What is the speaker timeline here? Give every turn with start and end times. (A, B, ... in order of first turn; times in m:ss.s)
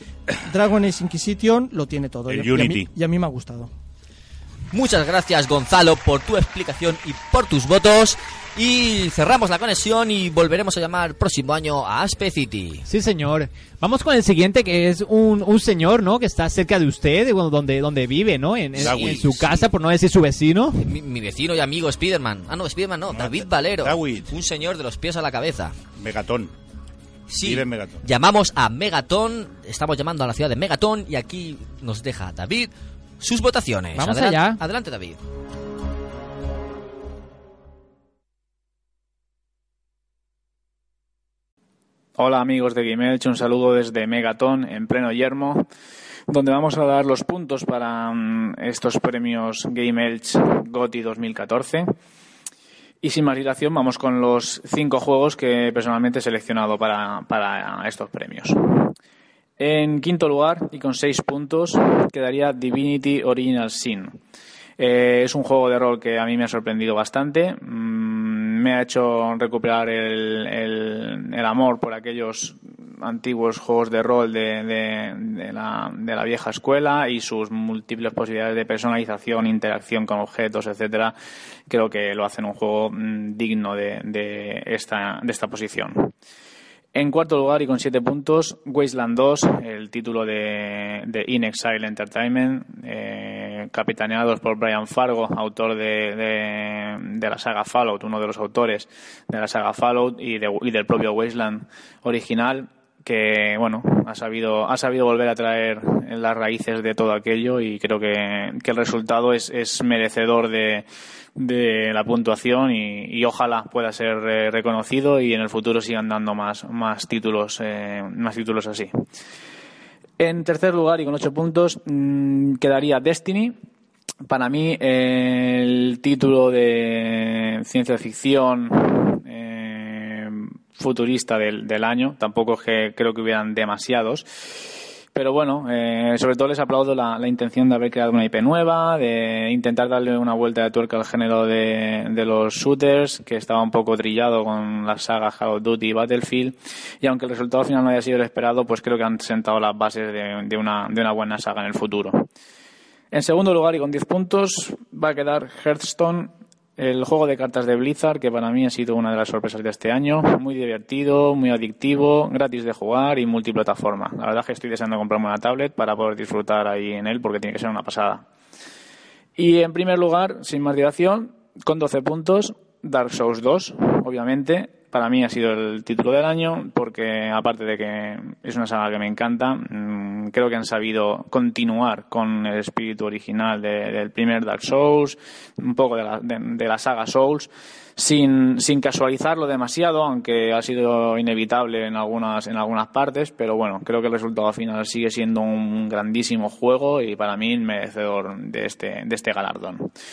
0:00.4-0:03.7 A
0:02.3-0:02.9 B
0:04.7-0:12.8 C
0:12.9-0:20.8 D
0:18.8-0:19.6 C
0:18.8-0:19.4 B
0:20.8-0:25.7 C
0:23.1-0:24.3 B
0:26.0-0:26.5 B
0:27.3-0:35.2 C
0:27.4-0:28.0 B
0:33.9-0:34.6 D
0:42.2-0:45.6 E
0:46.3-0:51.9 E
0:53.0-0:58.9 E
0:59.6-1:04.1 E
1:04.8-1:21.1 E
1:21.7-1:26.1 E
1:26.9-1:58.9 E
2:00.2-2:03.5 E
2:04.3-2:14.2 E
2:15.1-2:32.2 E
2:33.1-2:48.2 E
2:49.4-3:19.9 E